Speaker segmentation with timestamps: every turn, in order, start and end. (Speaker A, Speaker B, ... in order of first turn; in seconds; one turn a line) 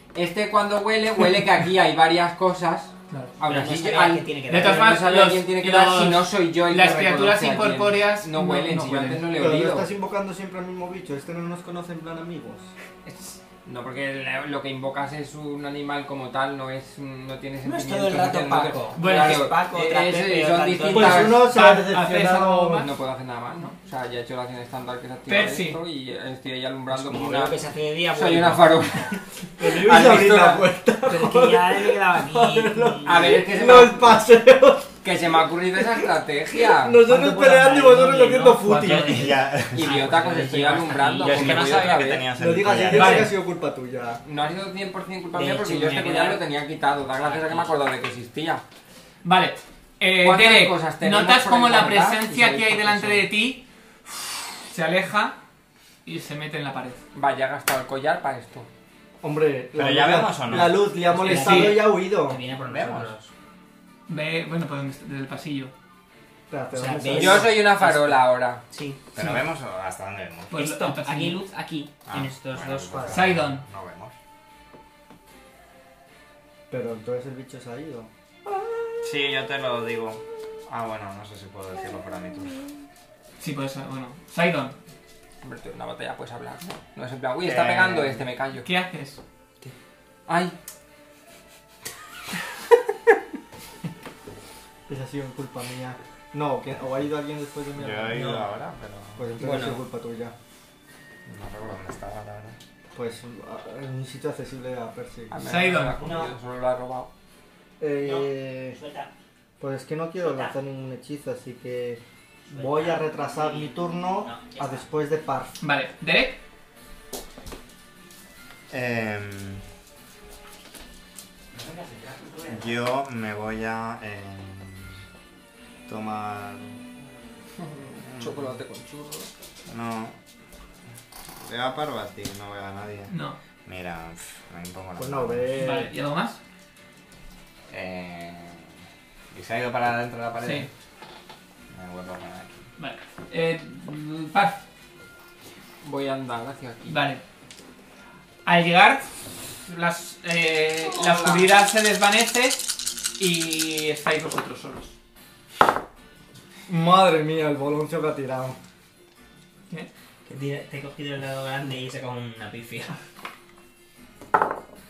Speaker A: 0.1-9.9
Speaker B: 3.4-5.0
Speaker C: 4.5-9.3
Speaker D: 9.3-12.7
Speaker A: 13.0-21.6
Speaker B: 17.6-21.5
Speaker C: 18.9-19.5
Speaker D: 20.9-22.9
Speaker C: 21.5-22.9
Speaker A: 22.7-27.6
Speaker C: 25.3-25.8
Speaker B: 26.9-29.1
Speaker A: 28.1-30.7
Speaker D: 29.6-35.3
Speaker B: 31.0-33.5
Speaker A: 33.0-34.2
Speaker A: 35.0-37.0
Speaker D: 36.6-39.3
Speaker B: 37.0-42.0
Speaker C: 38.7-39.0
Speaker E: 38.8-40.1
Speaker A: 39.7-42.3
Speaker E: 41.2-43.3
Speaker D: 42.2-44.2
Speaker C: 42.9-43.4
Speaker A: 44.2-48.6
Speaker B: 45.3-46.4
Speaker B: 47.2-47.7
Speaker C: 49.2-55.4
Speaker A: 50.2-53.3
Speaker C: 56.0-57.0
Speaker A: 57.1-58.7
Speaker D: 59.2-62.4
Speaker E: 59.7-60.9
Speaker B: 61.1-63.3
Speaker C: 61.2-61.9
Speaker E: 62.7-63.1
Speaker C: 64.1-65.7
Speaker D: 66.5-67.6
Speaker B: 66.7-69.3
Speaker A: 67.1-68.6
Speaker E: 69.1-70.5
Speaker C: 70.5-71.4
Speaker B: 70.5-73.3
Speaker E: 72.1-74.1
Speaker C: 73.1-73.6
Speaker D: 76.7-78.1
Speaker E: 79.0-82.6
Speaker C: 83.4-84.8
Speaker A: 85.4-88.7
Speaker E: 87.4-88.2
Speaker C: 88.6-89.2
Speaker A: 90.3-90.6
Speaker D: 94.9-98.4
Speaker E: 97.8-99.3
Speaker B: 98.1-98.5
Speaker D: 99.2-100.3
Speaker B: 99.4-99.8
Speaker E: 101.2-102.6
Speaker D: 102.9-105.5
Speaker A: 105.3-107.1
Speaker C: 105.5-106.0
Speaker B: 106.0-106.3
Speaker D: 107.8-108.8
Speaker B: 108.0-109.1
Speaker D: 109.6-115.6
Speaker B: 110.2-110.5
Speaker B: 112.5-114.9
Speaker C: 115.6-116.4
Speaker E: 118.7-119.6
Speaker B: 121.6-122.5
Speaker E: 122.5-125.0
Speaker E: 125.9-126.8
Speaker A: 127.6-129.3
Speaker E: 128.2-128.4
Speaker E: 129.7-130.2
Speaker E: 131.3-135.6
Speaker C: 133.1-133.4
Speaker D: 135.0-135.9
Speaker C: 135.6-136.4
Speaker E: 137.7-138.8
Speaker E: 139.3-140.7
Speaker C: 140.4-140.7
Speaker E: 141.7-142.7
Speaker C: 142.8-144.6
Speaker A: 145.8-147.0
Speaker C: 146.8-147.2
Speaker C: 148.4-149.1
Speaker C: 149.6-154.9
Speaker A: 150.8-151.5
Speaker D: 156.7-158.6
Speaker B: 160.2-162.9